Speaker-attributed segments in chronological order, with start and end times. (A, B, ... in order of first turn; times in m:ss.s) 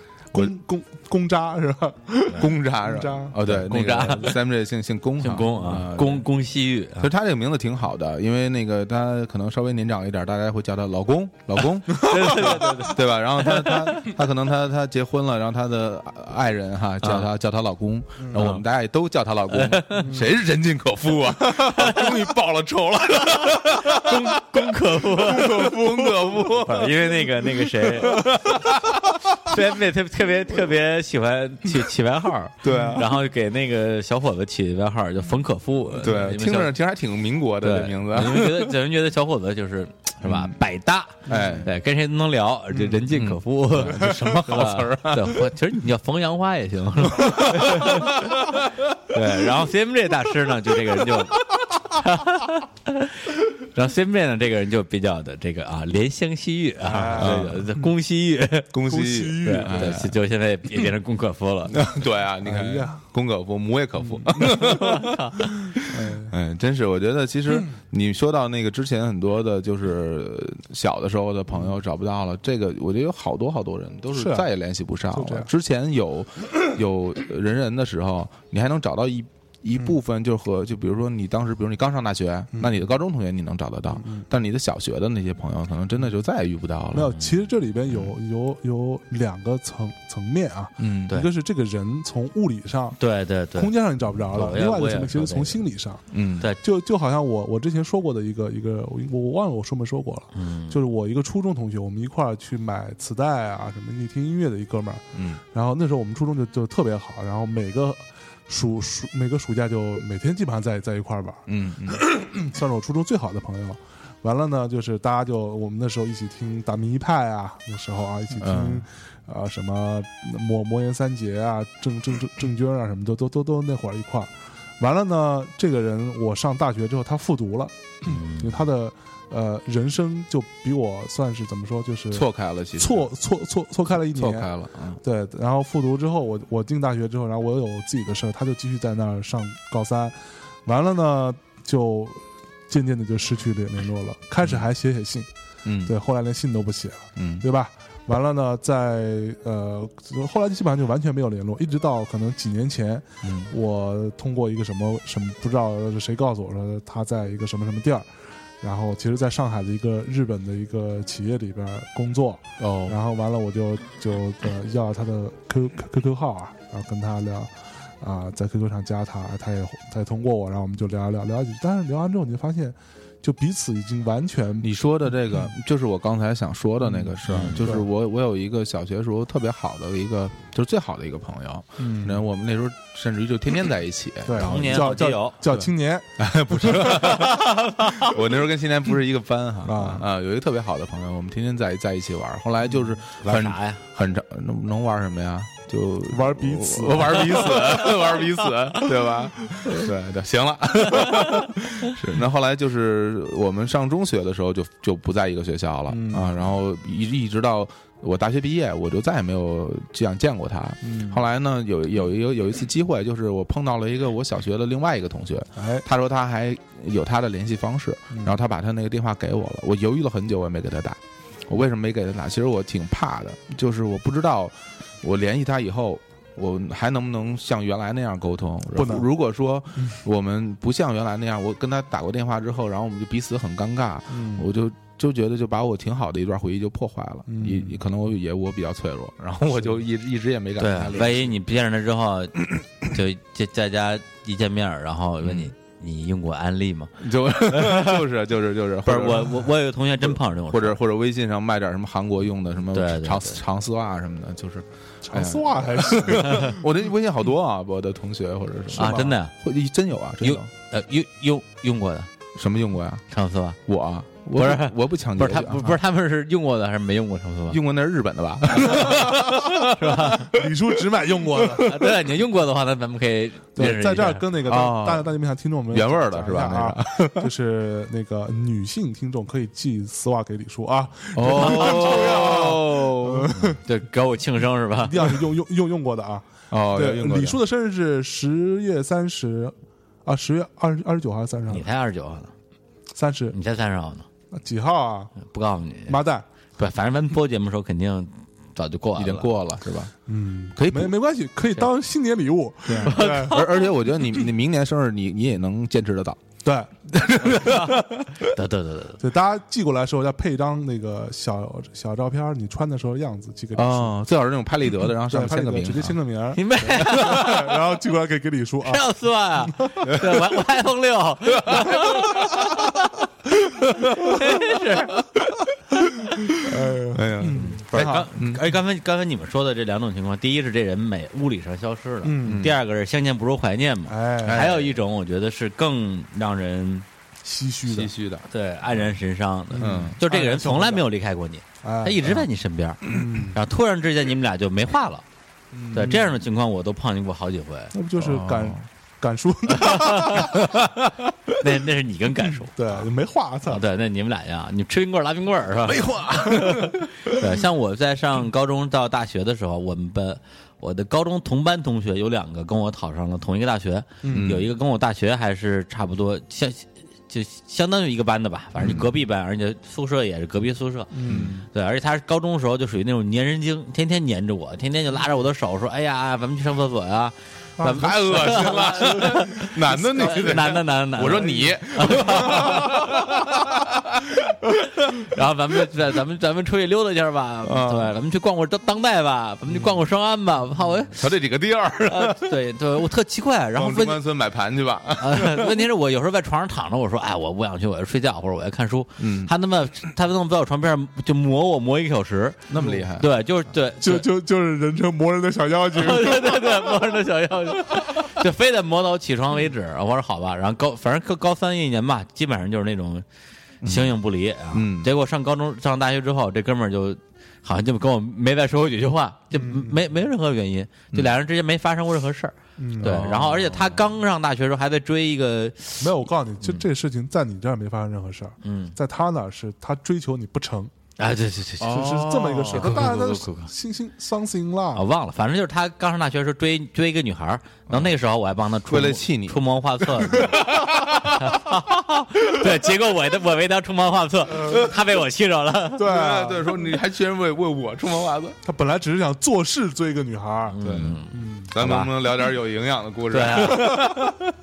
0:00.3-0:03.4 A
0:02.3-0:06.2 B
0:03.4-0:04.4 C
0:05.2-0:07.1 C
0:07.0-0:27.2 B
0:11.9-0:14.1 C
0:12.0-0:12.8 A
0:18.4-0:18.6 C
0:19.5-0:20.1 C
0:20.0-0:20.3 A
0:21.7-0:22.1 C
0:23.3-0:25.8 C
0:26.5-0:28.5 C
0:27.9-0:29.2 B
0:29.4-0:36.7 C
0:32.6-0:33.1 B
0:32.6-0:33.0 A
0:36.0-0:38.7 B
0:37.6-0:48.5 C
0:40.2-0:40.6 B
0:41.2-0:41.7 B
0:41.3-0:41.6 A
0:43.1-0:45.5 B
0:47.2-0:48.6 B
0:49.1-0:58.7 C
0:56.8-0:57.8 A
0:57.1-0:57.6 B
0:58.7-1:00.1 B
0:58.8-0:59.9 A
0:59.4-1:01.8 C
1:01.7-1:05.2 B
1:02.4-1:03.0 A
1:04.0-1:04.6 A
1:04.4-1:05.4 C
1:05.7-1:06.3 A
1:06.2-1:27.2 B
1:14.1-1:14.5 A
1:15.1-1:15.5 A
1:22.5-1:22.8 A
1:23.9-1:24.2 A
1:26.9-1:33.0 A
1:30.8-1:31.1 B
1:33.0-1:33.7 C
1:33.5-1:36.0 A
1:34.3-1:35.6 C
1:36.1-1:36.5 B
1:36.6-2:14.5 A
1:40.3-1:40.8 C
1:45.1-1:45.4 B
1:51.5-1:52.0 B
1:58.4-1:58.8 B
2:08.0-2:08.6 C
2:12.1-2:13.1 B
2:14.1-2:15.0 B
2:15.0-2:25.3 A
2:24.4-2:24.7 B
2:25.6-2:25.9 B
2:25.8-2:38.1 A
2:27.2-2:27.4 B
2:33.2-2:33.5 B
2:38.6-2:54.7 A
2:42.6-2:43.0 B
2:54.6-3:04.8 B
2:56.8-2:57.8 A
2:57.2-2:57.6 C
3:01.8-3:02.2 A
3:04.2-3:07.4 A
3:04.4-3:05.4 C
3:05.4-4:01.4 B
3:07.0-3:08.0 C
3:09.6-3:10.0 A
3:13.2-3:13.8 C
3:16.1-3:17.8 A
3:17.4-3:18.1 C
3:25.9-3:26.3 A
3:30.8-3:31.2 A
3:35.6-3:35.8 A
3:48.7-3:49.1 A
3:54.1-3:54.5 A
3:57.3-3:57.8 A
4:00.6-4:07.0 C
4:05.2-4:05.5 B
4:07.0-4:20.5 B
4:07.5-4:08.0 C
4:08.8-4:10.8 C
4:12.7-4:13.4 C
4:15.0-4:16.6 A
4:18.8-4:19.1 A
4:18.8-4:19.3 C
4:20.2-4:22.1 C
4:22.3-4:23.0 B
4:23.1-4:23.6 C
4:23.6-4:25.8 B
4:24.3-4:27.6 C
4:27.5-4:30.5 B
4:29.7-4:30.3 C
4:30.3-4:31.8 A
4:31.5-4:34.2 C
4:33.6-4:43.6 A
4:34.4-4:35.1 B
4:35.7-4:37.3 B
4:41.1-4:43.3 B
4:41.3-4:42.1 C
4:43.4-4:45.0 C
4:44.8-4:51.7 A
4:46.5-4:47.4 B
4:51.5-4:52.3 C
4:52.9-4:53.4 A
4:53.3-4:54.1 C
4:54.3-4:55.1 A
4:55.2-4:56.0 C
4:55.9-4:56.2 A
4:56.6-4:59.3 C
4:59.0-4:59.9 B
5:00.1-5:03.4 A
5:00.6-5:00.9 B
5:02.6-5:06.2 B
5:02.8-5:03.4 C
5:06.4-5:07.6 A
5:07.0-5:08.2 B
5:07.3-5:07.7 C
5:08.3-5:09.0 C
5:09.0-5:13.9 A
5:13.5-5:16.0 B
5:15.0-5:18.9 A
5:16.3-5:17.5 C
5:16.9-5:17.4 B
5:18.6-5:22.7 C
5:19.4-5:20.0 A
5:21.4-5:22.5 B
5:23.8-5:25.2 C
5:23.8-5:24.2 B
5:26.4-5:28.1 A
5:26.9-5:28.4 B
5:27.4-5:36.8 C
5:32.0-5:32.5 A
5:32.2-5:32.6 B
5:33.9-5:34.5 A
5:34.2-5:34.7 B
5:37.2-5:37.9 A
5:37.6-5:38.2 B
5:38.3-5:45.0 C
5:39.5-5:40.8 A
5:39.6-5:40.0 B
5:41.6-5:42.1 A
5:42.9-5:43.4 A
5:45.5-5:46.0 A
5:45.7-5:46.0 B
5:45.7-5:47.7 C
5:47.7-5:50.4 A
5:48.0-5:48.6 B
5:49.5-5:50.5 C
5:51.4-5:52.8 C
5:52.5-5:53.6 A
5:53.5-6:23.0 C
5:55.7-5:56.7 B
5:56.2-5:56.7 A
6:04.0-6:04.3 A
6:04.1-6:04.5 B
6:08.6-6:08.8 B
6:10.9-6:11.4 A
6:11.0-6:11.3 B
6:17.6-6:20.5 A
6:17.6-6:24.4 B
6:21.2-6:21.4 A
6:22.0-6:22.6 A
6:24.9-6:31.0 C
6:27.4-6:27.9 B
6:30.9-6:32.3 B
6:31.9-6:34.0 C
6:33.5-6:35.6 B
6:35.0-6:44.1 C
6:39.0-6:39.3 B
6:42.5-6:43.1 B
6:42.6-6:42.8 A
6:43.8-6:46.8 A
6:45.7-6:53.0 C
6:53.6-6:54.0 B
6:53.6-7:06.6 C
6:54.5-6:54.9 B
6:59.3-6:59.8 A
7:02.6-7:03.0 A
7:02.8-7:03.8 B
7:05.8-7:10.7 A
7:08.4-7:08.8 C
7:11.0-7:11.8 C
7:11.6-7:12.9 B
7:11.7-7:14.8 A
7:12.5-7:13.5 C
7:14.7-7:25.9 C
7:17.7-7:17.9 B
7:18.7-7:21.4 B
7:25.8-7:26.6 A
7:25.8-7:28.4 B
7:28.4-7:30.6 A
7:30.5-7:31.9 C
7:30.6-7:34.2 B
7:31.1-7:31.5 A
7:33.1-7:34.0 C